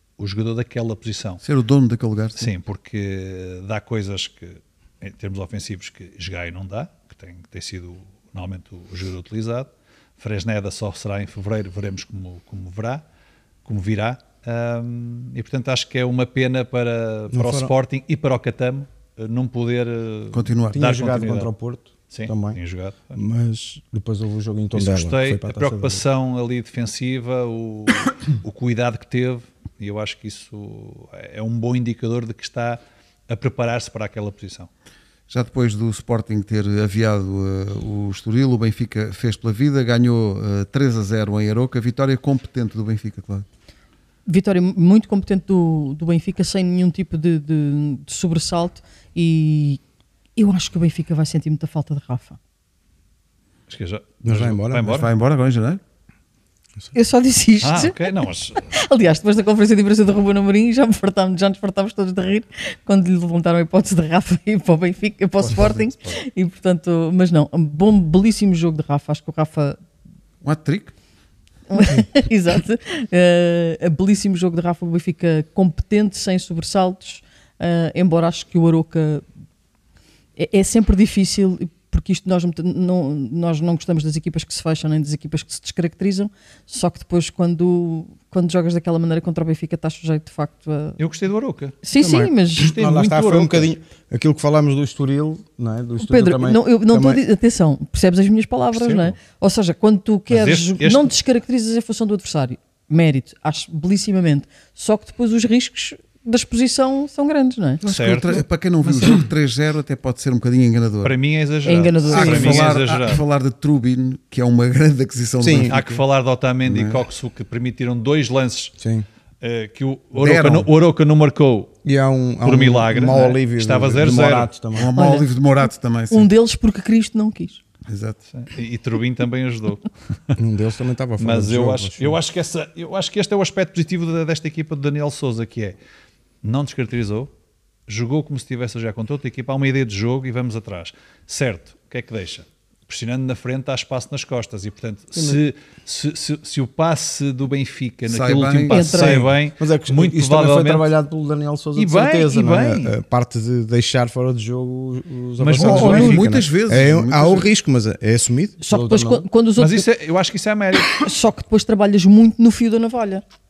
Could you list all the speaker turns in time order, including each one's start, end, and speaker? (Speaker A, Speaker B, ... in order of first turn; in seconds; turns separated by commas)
Speaker A: 0.2-1.4, Speaker B: 1.4-2.5, Speaker A: 2.4-13.0, Speaker A: 13.7-21.5, Speaker C: 17.3-17.7, Speaker B: 20.3-20.9, Speaker C: 20.7-22.6, Speaker A: 22.1-23.2, Speaker C: 23.1-26.0, Speaker A: 24.7-34.7, Speaker B: 35.3-43.5, Speaker D: 44.3-49.8, Speaker D: 50.4-52.4, Speaker A: 53.7-55.1, Speaker C: 54.2-55.0, Speaker B: 54.9-55.8, Speaker D: 56.9-69.8, Speaker A: 57.6-58.7, Speaker B: 65.5-65.9, Speaker B: 70.4-70.9, Speaker D: 71.7-79.2, Speaker D: 80.4-91.0, Speaker A: 91.0-91.8, Speaker D: 91.8-92.7, Speaker C: 92.0-97.2, Speaker A: 92.7-93.7, Speaker D: 96.0-107.8, Speaker A: 98.7-99.2, Speaker A: 100.3-101.1, Speaker B: 107.8-111.2, Speaker A: 107.8-109.3, Speaker A: 111.0-113.2, Speaker D: 111.7-112.6, Speaker C: 112.1-112.7, Speaker B: 112.1-115.9, Speaker C: 115.4-115.8, Speaker A: 115.5-118.8, Speaker B: 116.6-117.0, Speaker C: 118.8-119.1, Speaker A: 119.4-121.7, Speaker B: 120.2-120.7, Speaker C: 121.8-124.9, Speaker A: 122.4-124.5, Speaker B: 124.8-126.3, Speaker D: 125.0-125.4, Speaker D: 126.1-127.6, Speaker B: 127.9-128.2, Speaker A: 128.3-130.4, Speaker C: 130.4-132.2, Speaker A: 131.2-135.8, Speaker A: 136.4-137.3, Speaker A: 137.9-150.9, Speaker B: 148.1-148.8, Speaker D: 148.7-149.3, Speaker C: 148.9-159.3, Speaker A: 151.8-152.9, Speaker A: 155.4-156.3, Speaker B: 155.5-157.5, Speaker D: 158.6-159.9, Speaker A: 159.6-161.1, Speaker D: 160.9-163.2